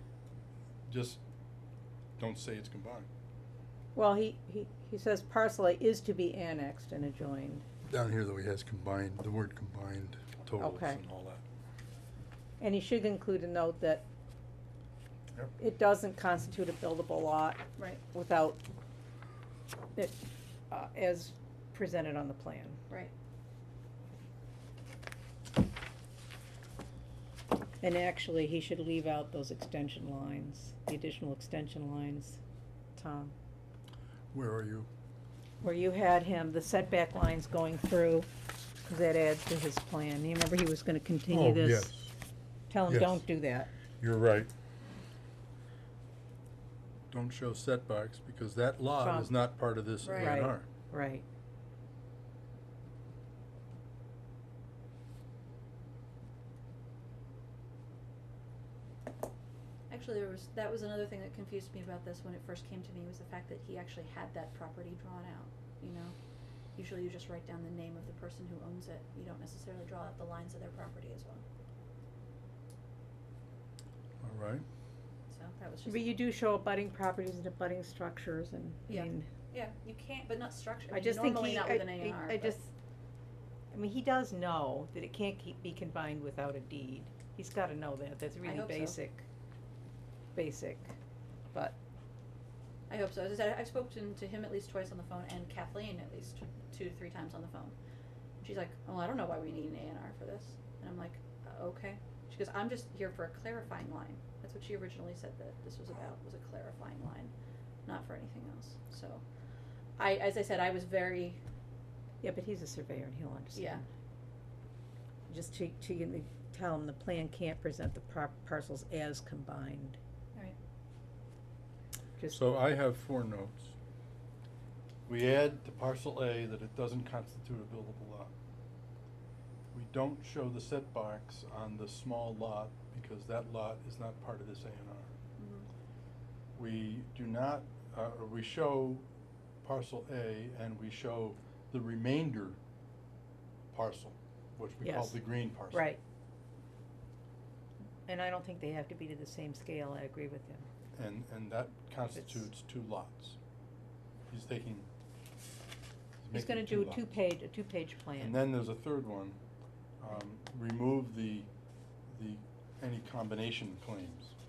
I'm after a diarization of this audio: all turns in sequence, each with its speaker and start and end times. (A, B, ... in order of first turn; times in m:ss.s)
0:00.9-0:01.2 A
0:02.2-0:03.1 A
0:04.0-0:07.6 B
0:07.9-0:11.4 A
0:10.6-0:11.0 B
0:12.6-0:14.0 B
0:15.6-0:18.6 B
0:17.8-0:18.0 C
0:20.7-0:22.8 B
0:27.8-0:32.4 B
0:33.0-0:33.3 B
0:34.3-0:34.9 A
0:35.6-0:38.3 B
0:38.8-0:42.0 B
0:41.3-0:42.1 A
0:42.7-0:43.7 B
0:42.9-0:43.2 A
0:44.0-0:44.5 A
0:47.1-0:50.7 A
0:49.0-0:49.3 B
0:50.0-0:50.4 C
0:50.1-0:51.2 B
0:59.9-1:06.2 C
1:06.8-1:11.4 C
1:14.2-1:14.6 A
1:15.3-1:16.2 C
1:15.9-1:19.3 B
1:18.9-1:22.6 C
1:20.9-1:22.7 B
1:23.7-1:29.2 B
1:28.4-1:29.0 C
1:30.4-1:31.0 B
1:32.9-1:37.8 C
1:38.4-1:47.3 C
1:47.9-1:49.2 C
1:50.0-1:51.4 C
1:52.2-1:53.8 B
1:53.5-1:53.8 C
1:55.3-2:00.0 B
2:02.3-2:03.8 A
2:05.1-2:08.3 A
2:09.7-2:15.1 A
2:15.4-2:15.7 C
2:16.6-2:19.1 A
2:19.6-2:22.6 A
2:23.7-2:25.9 A
2:24.8-2:26.0 B
2:28.1-2:30.7 B
2:31.0-2:33.4 A
2:34.3-2:34.9 A
2:36.2-2:37.1 A
2:36.3-2:38.4 B
2:38.2-2:39.4 A
2:40.0-2:41.5 A
2:42.1-2:44.4 A